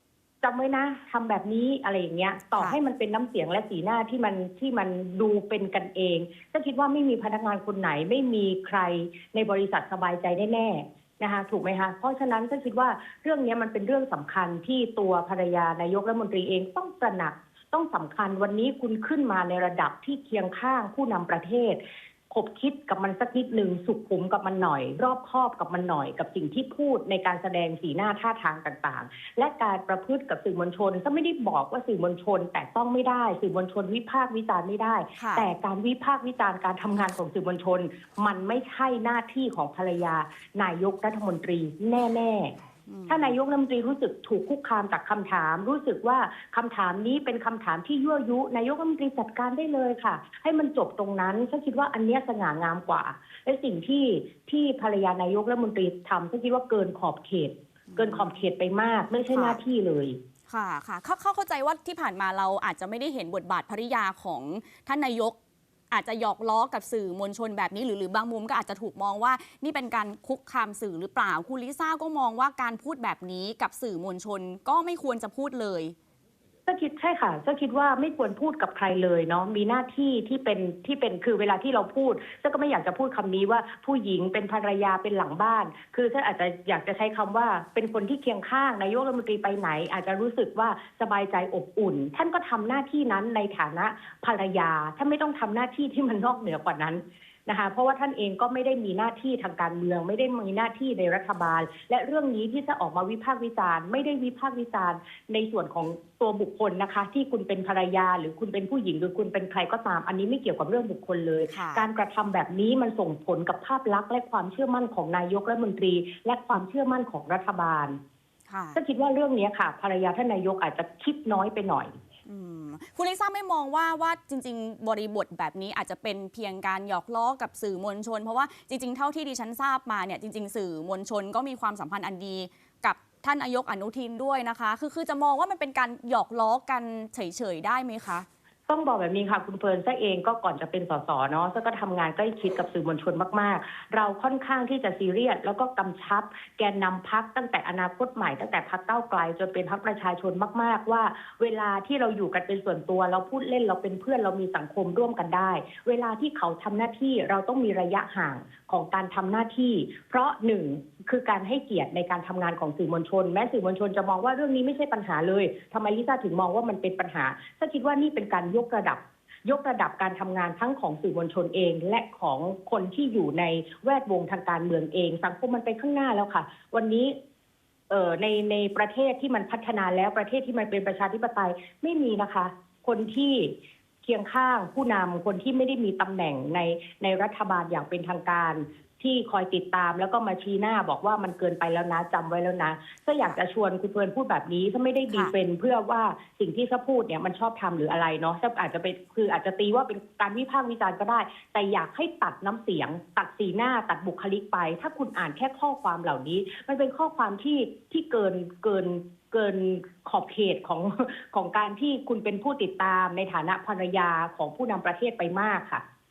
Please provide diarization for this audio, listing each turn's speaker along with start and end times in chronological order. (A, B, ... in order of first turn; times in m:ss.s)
0:00.4-0:42.5 A
0:35.2-0:35.5 B
0:42.9-0:43.3 B
0:43.1-1:00.2 A
0:57.9-0:58.3 B
0:59.3-0:59.6 B
1:00.5-1:05.4 B
1:05.9-1:15.9 B
1:16.6-1:58.0 A
1:51.5-1:51.8 B
1:58.5-1:58.8 B
1:58.7-2:01.9 A
2:02.3-2:18.2 B
2:18.7-2:57.1 A
2:57.9-3:03.5 A
3:04.0-3:35.8 A